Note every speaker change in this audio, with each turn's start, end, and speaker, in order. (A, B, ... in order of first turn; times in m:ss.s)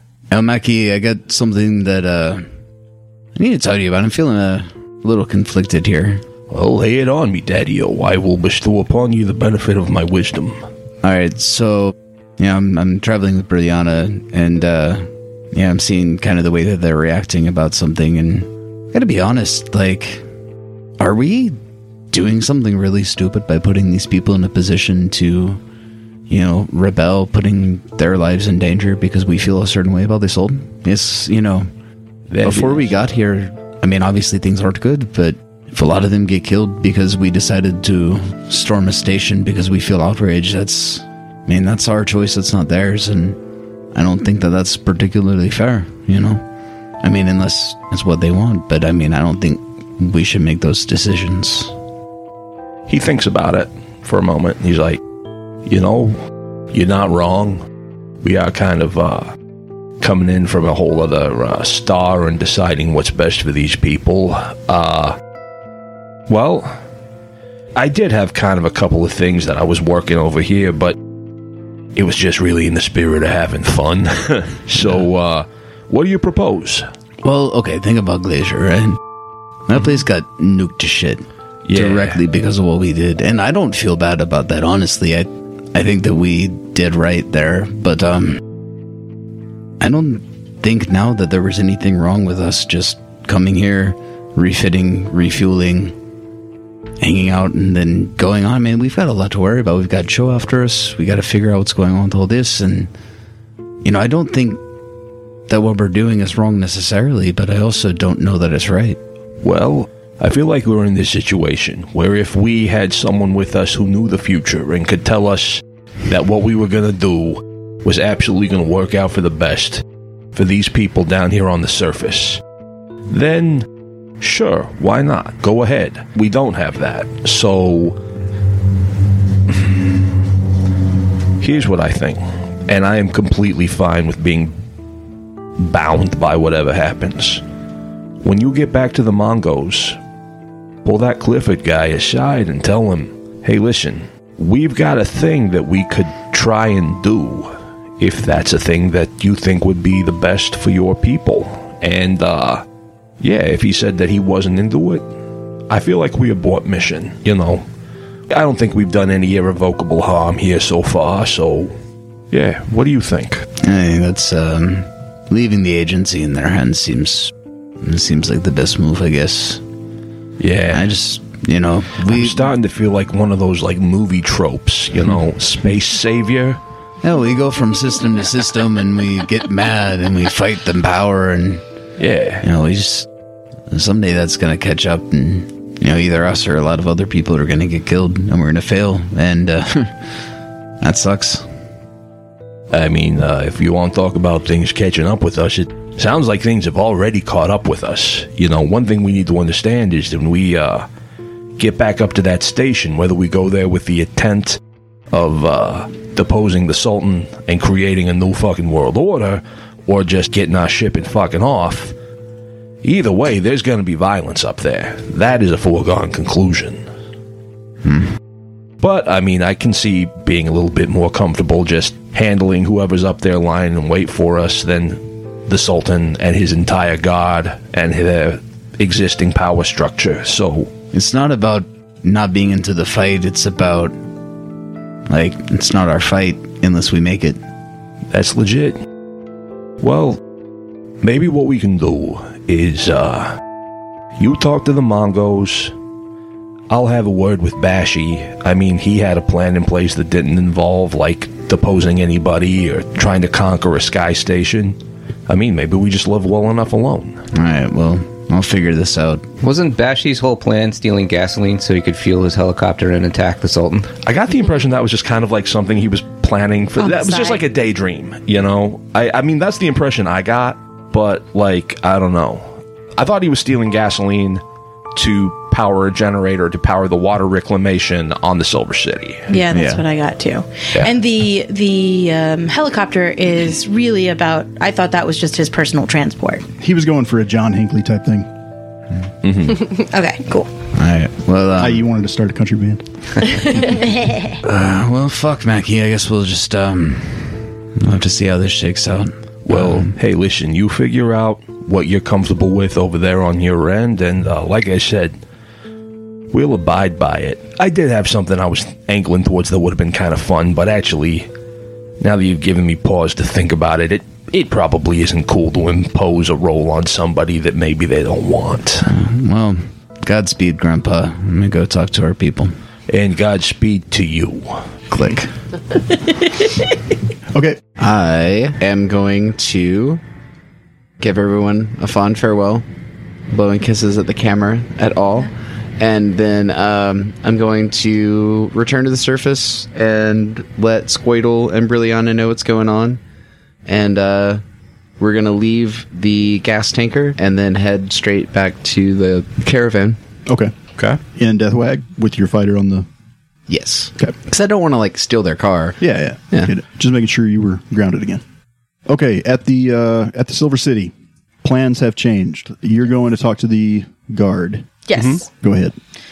0:00.3-0:02.5 A
0:03.4-0:06.2 A
0:06.5-0:10.6 B
0:11.0-0:20.2 A
0:21.0-0:21.6 A
0:22.1-0:25.6 A
0:26.3-0:31.7 A
0:32.3-0:32.9 B
0:32.4-0:43.4 A
0:43.9-0:46.4 A
0:47.0-0:51.7 A
0:52.9-0:55.0 B
0:55.6-0:56.2 B
0:56.7-0:57.6 B
0:58.2-0:59.4 B
1:00.0-1:05.2 B
1:06.3-1:06.8 B
1:07.8-1:11.0 B
1:11.9-1:16.9 B
1:17.2-1:19.0 A
1:19.7-1:28.4 A
1:21.7-1:22.2 B
1:29.8-1:35.9 A
1:37.0-1:42.9 A
1:43.8-1:44.6 A
1:45.5-1:49.0 A
1:49.4-2:02.4 B
2:03.1-2:03.7 B
2:04.2-2:08.0 B
2:11.4-2:14.5 B
2:15.6-2:17.4 B
2:18.2-2:20.0 B
2:20.8-2:32.6 B
2:33.2-2:35.1 B
2:35.7-2:37.6 B
2:38.3-2:41.8 B
2:42.3-2:43.4 B
2:43.6-2:49.6 A
2:50.4-2:50.9 B
2:50.7-2:52.5 A
2:52.0-2:56.6 B
2:57.0-3:01.6 A
3:02.0-3:02.4 B
3:02.4-3:03.1 A
3:03.7-3:10.1 A
3:10.8-3:11.5 A
3:12.7-3:20.9 B
3:21.6-3:24.6 B
3:25.1-3:31.9 B
3:32.8-3:36.8 B
3:38.8-3:50.7 B
3:50.9-3:53.9 A
3:55.1-3:57.4 A
3:58.1-3:58.8 B
3:59.8-4:00.2 B
4:01.0-4:03.4 B
4:04.2-4:05.7 B
4:06.7-4:17.2 B
4:17.3-4:19.3 A
4:19.4-4:23.9 C
4:24.0-4:34.4 B
4:26.8-4:27.4 D
4:34.9-4:39.3 B
4:39.3-4:46.5 D
4:39.5-4:39.8 A
4:46.6-4:48.3 E
4:49.2-4:49.7 B
4:49.7-4:50.5 D
4:50.7-4:51.8 A
4:51.6-4:52.9 E
4:53.5-4:54.4 D
4:54.4-4:59.9 A
4:59.4-5:05.2 B
5:06.3-5:11.3 B
5:12.0-5:18.9 B
5:18.8-5:22.6 A
5:22.9-5:24.6 B
5:24.9-5:25.3 A
5:27.3-5:27.6 E
5:27.8-5:30.0 A
5:31.0-5:32.6 A
5:33.3-5:43.0 A
5:43.6-5:44.4 A
5:45.0-5:50.0 A
5:50.3-5:52.9 E
5:53.5-5:56.5 A
5:55.8-5:58.2 E
5:58.9-6:05.8 E
6:04.9-6:05.2 D